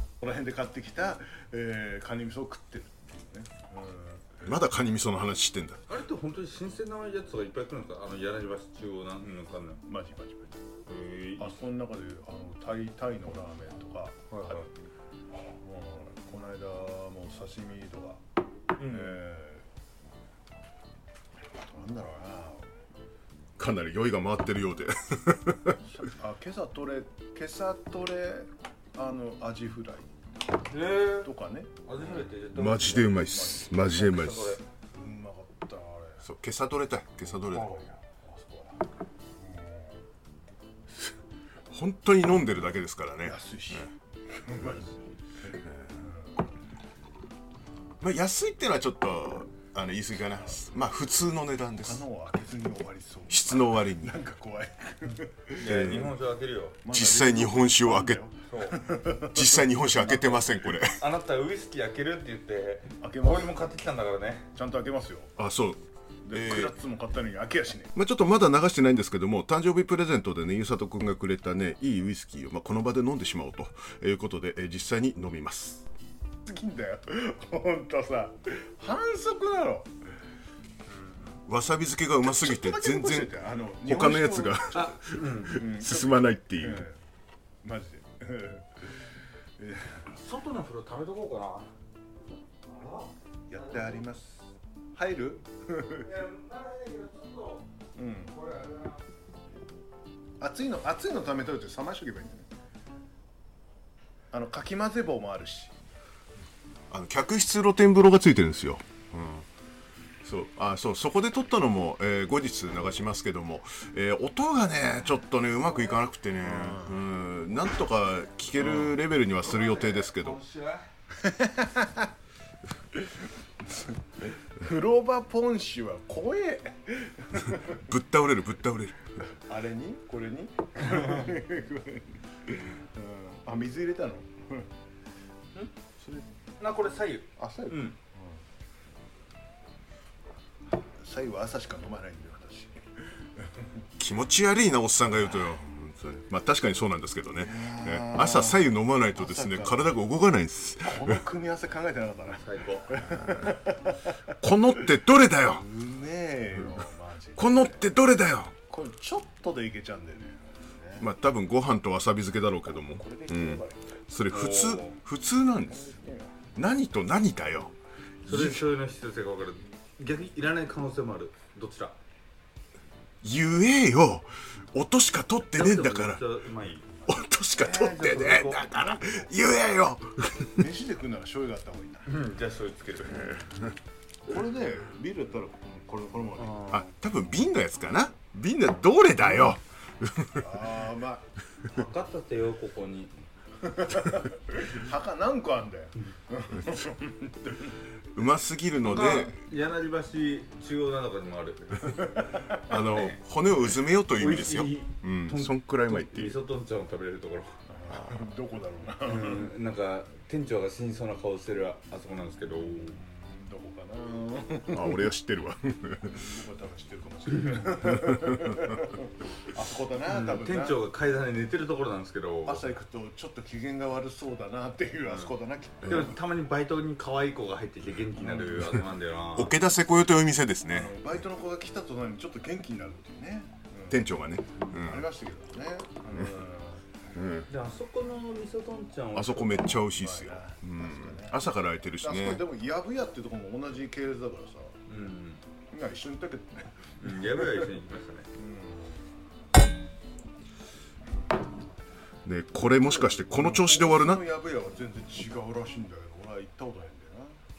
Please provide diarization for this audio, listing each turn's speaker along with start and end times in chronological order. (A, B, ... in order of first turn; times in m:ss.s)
0:00.2-0:04.4 A
0:04.4-0:05.8 B
0:05.9-0:09.8 C
0:09.8-0:10.6 A
0:10.9-0:11.5 C
0:11.4-0:14.7 A
0:14.3-0:14.6 C
0:15.6-0:18.2 A
0:18.8-0:19.2 C
0:18.8-0:19.6 A
0:21.7-0:22.6 A
0:23.6-0:25.8 B
0:25.8-0:30.1 A
0:30.7-0:31.3 C
0:31.1-0:31.9 A
0:31.8-0:33.1 C
0:32.1-0:34.6 B
0:33.1-0:33.9 A
0:33.8-0:34.6 C
0:34.9-0:36.2 A
0:36.2-0:37.7 B
0:37.5-0:37.9 C
0:37.6-0:38.8 A
0:39.4-0:40.0 A
0:41.7-0:43.4 B
0:43.2-0:43.9 A
0:44.4-0:45.1 A
0:46.0-0:46.4 A
0:48.0-0:52.0 B
0:51.8-0:55.8 A
0:53.3-0:54.2 B
0:55.6-0:56.8 C
0:55.6-0:56.2 B
0:56.8-1:00.5 A
0:56.9-0:58.2 B
0:58.5-0:58.8 C
0:59.3-1:01.0 B
1:00.9-1:04.5 C
1:03.0-1:03.7 A
1:04.5-1:05.4 A
1:05.4-1:06.8 B
1:06.2-1:07.9 A
1:07.9-1:15.8 B
1:16.4-1:19.9 A
1:21.5-1:26.8 B
1:22.4-1:24.6 A
1:24.7-1:25.6 C
1:25.5-1:27.0 A
1:27.6-1:28.8 A
1:29.6-1:30.0 A
1:30.1-1:31.7 C
1:32.7-1:34.0 C
1:33.5-1:34.4 A
1:34.9-1:36.2 A
1:36.0-1:37.7 C
1:37.9-1:38.4 A
1:38.3-1:39.0 C
1:40.4-1:42.4 A
1:44.3-1:45.7 A
1:46.9-1:49.5 B
1:50.2-2:00.4 B
1:56.4-1:57.0 A
1:58.6-1:58.9 A
1:59.4-2:00.9 C
2:01.2-2:02.1 A
2:03.7-2:07.8 A
2:07.8-2:09.0 B
2:09.5-2:14.7 A
2:16.6-2:18.0 C
2:17.4-2:18.4 A
2:21.0-2:22.8 A
2:24.0-2:31.2 B
2:27.4-2:29.9 A
2:30.8-2:34.1 A
2:32.3-2:33.0 C
2:34.4-2:35.7 B
2:35.5-2:38.0 A
2:37.4-2:38.6 B
2:38.6-2:41.1 A
2:41.0-2:45.9 B
2:42.8-2:43.9 A
2:44.3-2:45.0 C
2:45.6-2:46.5 A
2:46.6-2:47.7 B
2:48.2-2:48.6 B
2:48.2-2:52.0 C
2:53.2-2:56.2 B
2:55.5-2:59.0 C
2:57.1-3:00.7 B
2:57.6-2:58.0 A
3:00.5-3:02.1 A
3:02.0-3:03.4 C
3:04.2-3:06.8 A
3:06.4-3:06.8 C
3:06.7-3:10.6 B
3:10.4-3:11.8 A
3:11.7-3:13.1 C
3:13.6-3:17.6 A
3:18.1-3:19.4 B
3:18.8-3:23.2 C
3:21.8-3:22.6 A
3:22.7-3:26.4 B
3:24.1-3:27.5 C
3:27.7-3:29.5 A
3:29.0-3:33.0 C
3:32.5-3:35.1 A
3:34.7-3:36.2 B
3:36.1-3:40.8 A
3:40.1-3:42.6 C
3:42.4-3:46.2 A
3:45.8-3:49.6 C
3:48.2-3:48.5 A
3:49.3-3:51.0 B
3:50.7-3:54.1 A
3:53.9-3:55.1 B
3:54.7-3:56.8 A
3:57.2-3:57.5 B
3:57.5-3:59.7 C
3:59.1-4:02.4 B
3:59.9-4:01.4 A
4:02.0-4:04.7 A
4:04.9-4:05.4 C
4:05.7-4:07.7 A
4:07.0-4:08.3 C
4:08.4-4:09.1 A
4:12.2-4:14.2 B
4:12.8-4:17.4 A